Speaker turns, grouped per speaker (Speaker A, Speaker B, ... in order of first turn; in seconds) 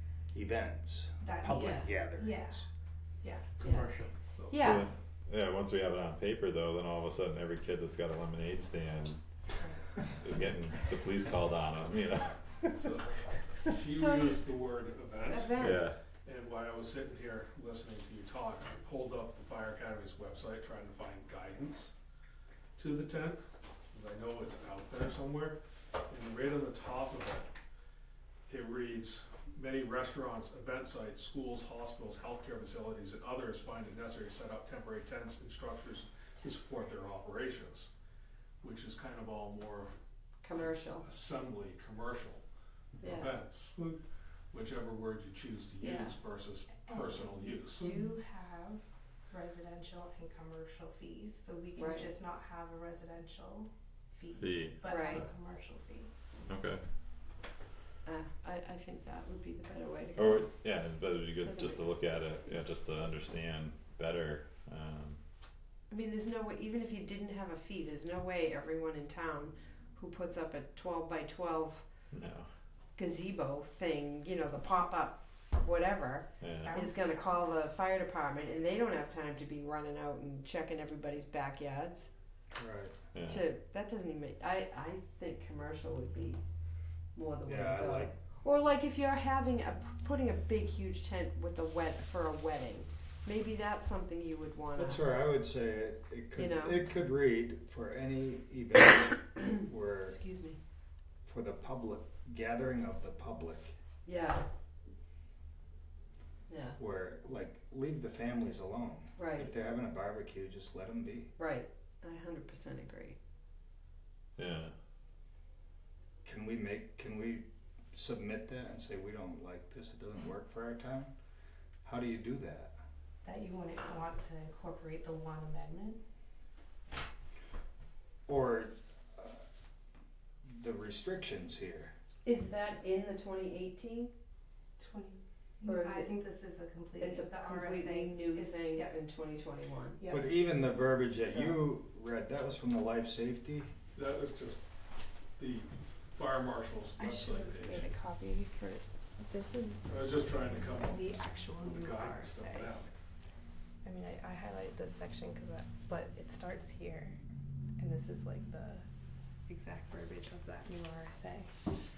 Speaker A: 0.3-2.6, 82.5-83.0, 87.5-88.2, 94.8-100.2, 101.3-103.7, 106.8-111.3, 116.2-121.1, 121.8-122.8, 128.3-129.4, 130.4-131.9, 140.1-143.7
Speaker B: 1.2-2.6, 9.6-9.9, 46.9-47.2, 47.8-56.1, 76.6-77.6, 123.2-126.0, 134.8-139.0, 140.0-140.4, 147.0-149.8, 150.9-152.8, 153.8-157.2, 157.8-158.8, 159.5-161.5
Speaker C: 1.5-1.9, 3.6-4.0, 4.5-4.9, 13.9-14.4, 15.2-15.8, 40.4-41.0, 43.0-43.3, 45.8-46.2, 47.8-48.2, 51.8-52.1, 54.9-55.3, 58.1-60.5, 61.4-62.0, 65.9-71.8, 73.0-82.1, 83.3-86.4, 87.1-95.1, 96.3-96.8, 100.0-100.6, 104.0-104.5, 106.5-106.8, 109.2-109.5, 111.4-113.2, 132.2-134.1, 135.6-136.1, 137.0-140.0, 141.2-141.6
Speaker D: 3.6-4.7, 12.8-21.9, 22.8-23.4, 23.9-27.5, 28.5-37.9, 38.6-39.9, 40.5-42.4, 43.0-47.9, 143.9-144.6, 145.4-147.9, 149.9-152.9
Speaker E: 4.6-9.2, 10.1-12.4, 15.6-15.9, 54.4-54.8, 56.5-56.8, 60.2-65.2, 72.1-72.5, 76.4-76.9, 83.1-83.5, 114.4-114.7